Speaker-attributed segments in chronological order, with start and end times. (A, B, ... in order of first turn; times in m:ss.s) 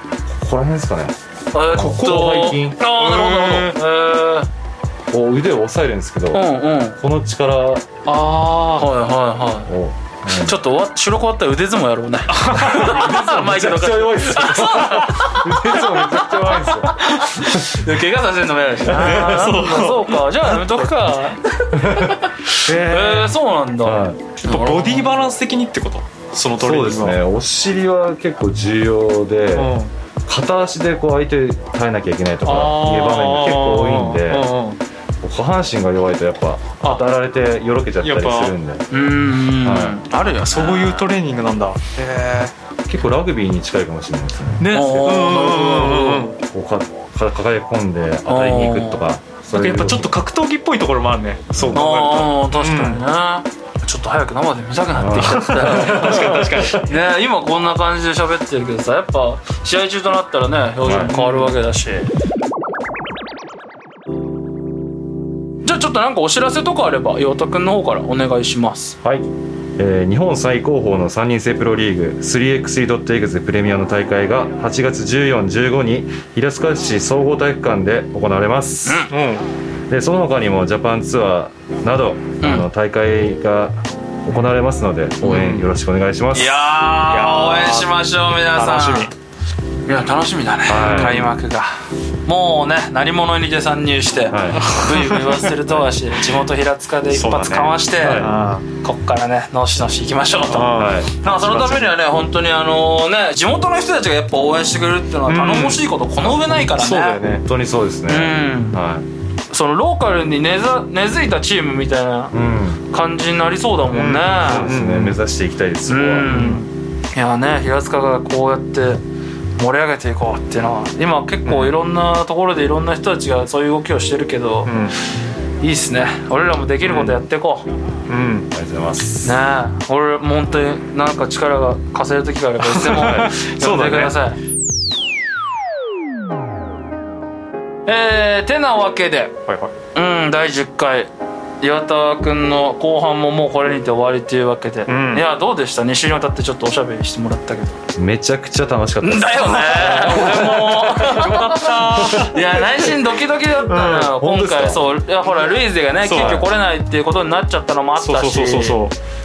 0:00.3-0:02.8 A
0:01.5-0:04.5 B
0:01.8-0:02.3 C
0:02.8-0:03.8 C
0:05.1-0:07.9 A
0:06.3-0:07.0 B
0:08.1-0:08.9 C
0:08.8-0:09.7 B
0:09.7-0:10.6 A
0:10.3-0:25.2 B
0:12.3-0:13.5 C
0:13.2-0:17.6 A
0:18.9-0:19.4 A
0:18.9-0:20.9 C
0:21.7-0:22.2 A
0:22.6-0:23.4 C
0:23.8-0:24.4 A
0:24.4-0:27.2 C
0:26.6-0:29.7 A
0:29.6-0:29.9 C
0:30.3-0:34.5 A
0:32.4-0:34.8 C
0:35.2-0:38.9 A
0:38.0-0:38.6 C
0:38.9-0:41.1 B
0:39.6-0:40.0 A
0:40.5-0:42.5 C
0:42.9-0:45.7 A
0:44.6-0:46.4 C
0:44.6-0:46.3 B
0:46.4-0:50.1 A
0:48.3-0:49.0 B
0:49.5-0:53.0 C
0:51.6-0:51.8 A
0:51.7-1:02.1 B
0:54.9-0:56.9 A
0:55.3-0:56.8 C
1:00.8-1:01.2 A
1:05.6-1:09.0 B
1:09.0-1:19.1 A
1:18.8-1:19.1 B
1:19.1-1:19.4 C
1:19.9-1:26.8 A
1:22.4-1:22.7 B
1:25.2-1:25.7 C
1:26.3-1:29.1 B
1:27.0-1:28.0 C
1:28.5-1:29.1 C
1:29.9-1:31.7 B
1:30.7-1:31.3 A
1:30.7-1:31.3 C
1:32.3-1:38.2 B
1:34.3-1:34.7 A
1:34.6-1:35.5 C
1:37.1-1:38.4 A
1:38.2-1:38.6 C
1:38.8-1:47.2 B
1:40.5-1:41.0 C
1:40.7-1:41.9 A
1:45.3-1:47.4 C
1:47.3-1:49.0 A
1:48.1-1:48.8 B
1:49.5-1:52.3 B
1:52.3-1:52.8 A
1:52.9-1:54.7 B
1:53.9-1:55.2 C
1:54.4-1:56.4 A
1:55.9-1:59.0 B
1:56.2-1:56.7 C
1:59.6-2:04.8 B
2:01.5-2:01.7 C
2:04.7-2:04.9 C
2:05.6-2:07.7 B
2:06.8-2:07.2 C
2:08.1-2:08.5 C
2:08.5-2:09.4 A
2:09.2-2:14.4 B
2:12.6-2:14.2 C
2:13.0-2:13.3 A
2:17.9-2:19.3 B
2:19.5-2:19.7 C
2:20.0-2:27.8 B
2:24.9-2:25.3 C
2:28.0-2:31.4 A
2:29.0-2:38.8 B
2:29.7-2:33.0 C
2:32.0-2:32.3 A
2:33.7-2:34.1 C
2:33.9-2:34.8 A
2:36.0-2:36.4 C
2:36.1-2:36.5 A
2:38.0-2:39.0 C